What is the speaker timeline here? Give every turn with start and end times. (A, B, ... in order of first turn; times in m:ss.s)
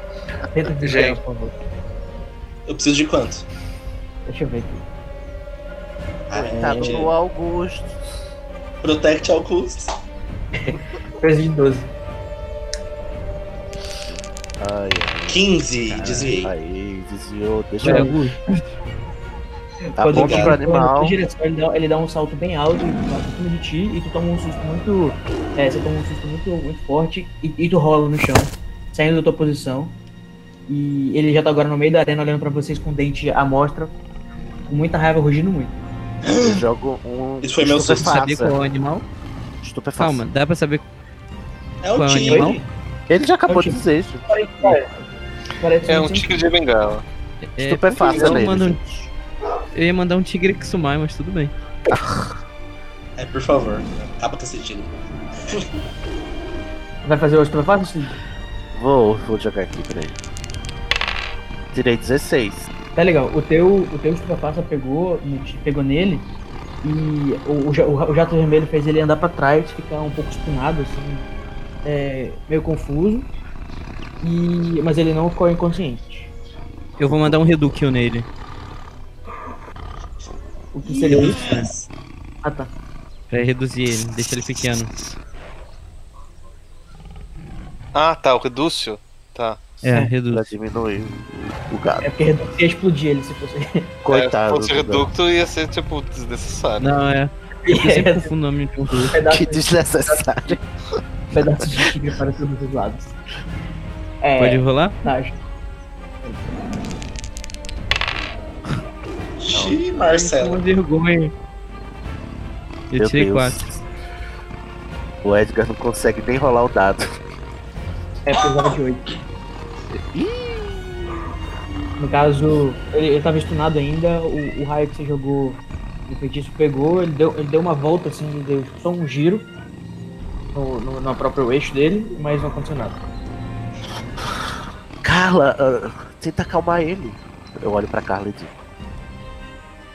0:00.5-0:01.6 A
0:00.8-0:01.2 B
0:02.7-0:03.5 C
0:04.3-0:04.8 A
0:06.3-0:07.1 C
0:06.3-0:08.0 D
0:06.5-0:07.1 A
0:08.8-0:09.9 C
0:10.6-0:11.9 A
0:14.6-0:18.2 D
0:15.3-0:16.5 C
0:16.0-0:16.3 E
0:17.8-0:18.4 E
0:17.8-0:18.3 A
0:19.9-0:30.0 A
0:20.0-0:21.2 D
0:20.1-0:20.6 C
0:30.7-0:33.9 A
0:34.7-0:35.8 A
0:36.2-0:36.6 C
0:36.4-0:38.6 D
0:37.4-0:38.2 C
0:38.0-0:39.1 E
0:39.6-0:40.2 D
0:40.0-0:40.9 E
0:41.8-0:42.7 C
0:41.9-0:42.6 E
0:42.2-0:42.6 A
0:43.1-0:44.8 D
0:43.5-0:45.0 A
0:45.6-0:46.4 A
0:45.9-0:47.0 B
0:47.4-0:48.8 E
0:47.6-0:49.1 D
0:49.8-0:51.5 E
0:51.9-0:52.3 D
0:53.2-0:54.9 C
0:57.0-0:58.2 A
0:58.7-1:00.2 D
1:01.7-1:02.7 D
1:03.0-1:06.3 A
1:06.8-1:11.3 A
1:11.8-1:13.3 A
1:14.2-1:16.3 A
1:17.0-1:18.3 E
1:20.7-1:21.4 A
1:20.9-1:21.9 C
1:21.1-1:21.7 E
1:22.4-1:22.7 A
1:23.3-1:24.9 E
1:27.9-1:29.7 B
1:29.8-1:30.5 E
1:30.3-1:32.1 D
1:32.0-1:33.9 A
1:34.0-1:35.1 D
1:34.1-1:36.9 B
1:36.8-1:39.2 E
1:37.7-1:38.3 A
1:39.1-1:40.6 A
1:39.3-1:40.6 D
1:41.3-1:43.2 A
1:44.2-1:45.4 A
1:44.4-1:45.0 E
1:46.2-1:46.7 A
1:49.4-1:50.6 C
1:49.6-1:51.3 E
1:52.9-1:53.6 E
1:53.0-1:53.8 D
1:55.2-1:57.1 D
1:58.3-1:59.2 A
2:00.0-2:01.2 D
2:02.0-2:09.5 A
2:10.5-2:13.0 A
2:15.0-2:18.6 D